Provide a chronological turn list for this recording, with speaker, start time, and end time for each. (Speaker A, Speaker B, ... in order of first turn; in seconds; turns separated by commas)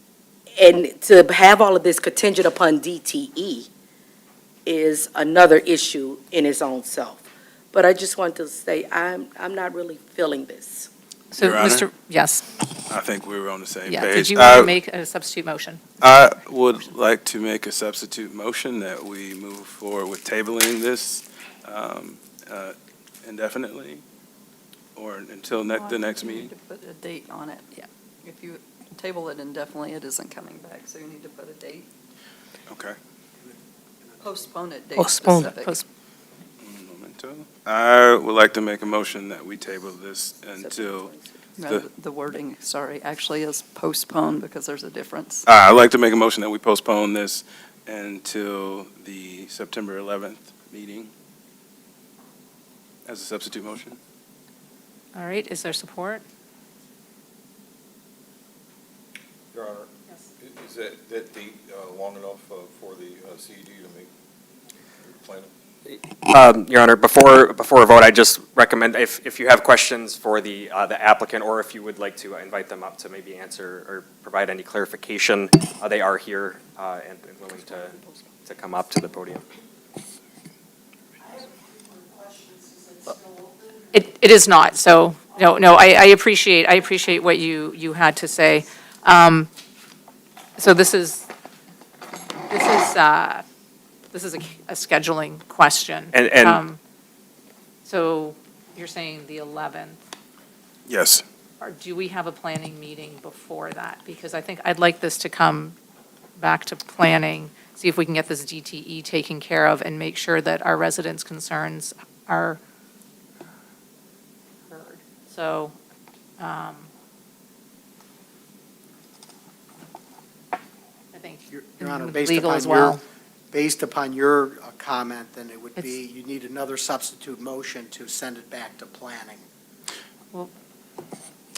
Speaker A: 0.6-3.7, Speaker A: 4.7-10.9, Speaker B: 11.3-12.4, Speaker C: 11.4-11.9, Speaker C: 12.9-14.7, Speaker B: 13.8-15.8, Speaker C: 16.0-24.0, Speaker C: 24.9-26.5, Speaker D: 25.7-27.6, Speaker D: 28.2-31.9, Speaker C: 32.7-33.0, Speaker D: 34.2-35.8, Speaker B: 35.0-35.8, Speaker C: 36.6-41.9, Speaker A: 40.6-41.2, Speaker D: 41.6-45.5, Speaker C: 45.4-51.1, Speaker C: 53.0-54.0, Speaker B: 55.1-56.2, Speaker E: 59.5-64.1, Speaker E: 65.1-66.0, Speaker F: 66.3-79.4, Speaker D: 77.7-78.3, Speaker B: 83.9-89.5, Speaker B: 90.6-91.3, Speaker B: 92.5-93.4, Speaker B: 94.1-96.8, Speaker F: 96.1-96.6, Speaker B: 97.8-100.0, Speaker C: 100.9-101.2, Speaker B: 101.6-105.8, Speaker B: 106.4-112.6, Speaker B: 114.7-115.7, Speaker B: 116.4-116.9, Speaker B: 121.1-123.0, Speaker G: 121.5-123.0, Speaker G: 123.5-129.4